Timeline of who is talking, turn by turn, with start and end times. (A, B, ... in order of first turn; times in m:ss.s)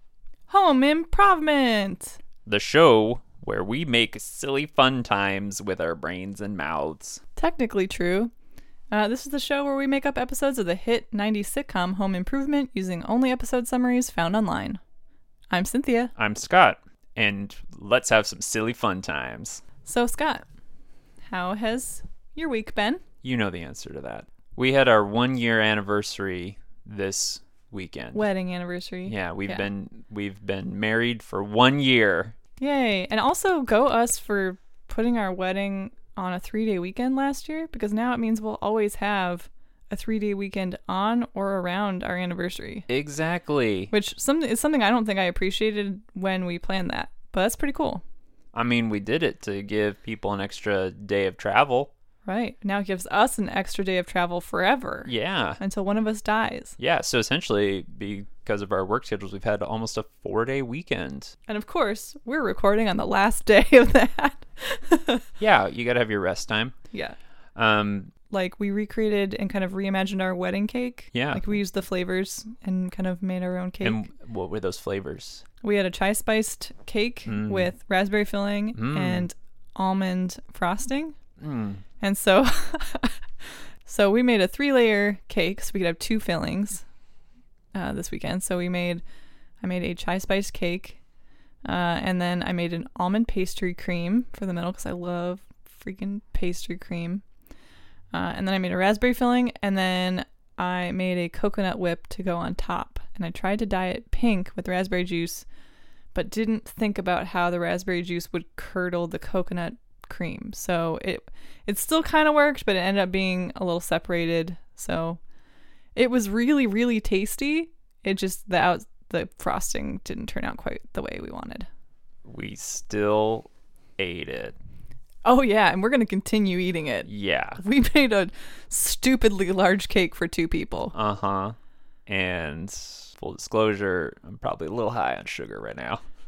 0:00.5-0:02.2 A
0:02.4-0:07.2 B
0:07.4-0:08.3 A
0:08.9-0:14.8 A
0:15.5-0:16.1 A
0:16.2-0:19.6 B
0:19.8-0:20.4 A
0:21.3-0:23.0 A
0:23.2-0:28.2 B
0:28.1-0:29.7 A
0:29.0-0:32.3 B
0:32.6-0:42.9 A
0:42.9-0:43.9 B
0:43.9-0:48.0 A
0:48.5-0:51.9 B
0:52.2-0:56.8 A
0:55.0-0:55.6 B
0:56.8-1:01.3 B
1:01.5-1:05.2 A
1:05.4-1:06.7 B
1:06.9-1:07.2 A
1:07.6-1:08.1 B
1:08.3-1:14.0 A
1:11.1-1:11.5 B
1:13.8-1:15.4 B
1:15.6-1:21.1 A
1:17.2-1:17.7 B
1:18.7-1:19.3 B
1:21.4-1:21.8 B
1:22.0-1:26.8 A
1:27.7-1:29.0 A
1:29.6-1:31.0 A
1:31.6-1:37.2 A
1:38.1-1:45.4 A
1:46.1-1:55.2 A
1:55.9-2:01.7 A
2:02.2-2:04.6 B
2:05.2-2:10.9 A
2:07.1-2:07.6 B
2:10.9-2:11.6 B
2:12.1-2:16.0 B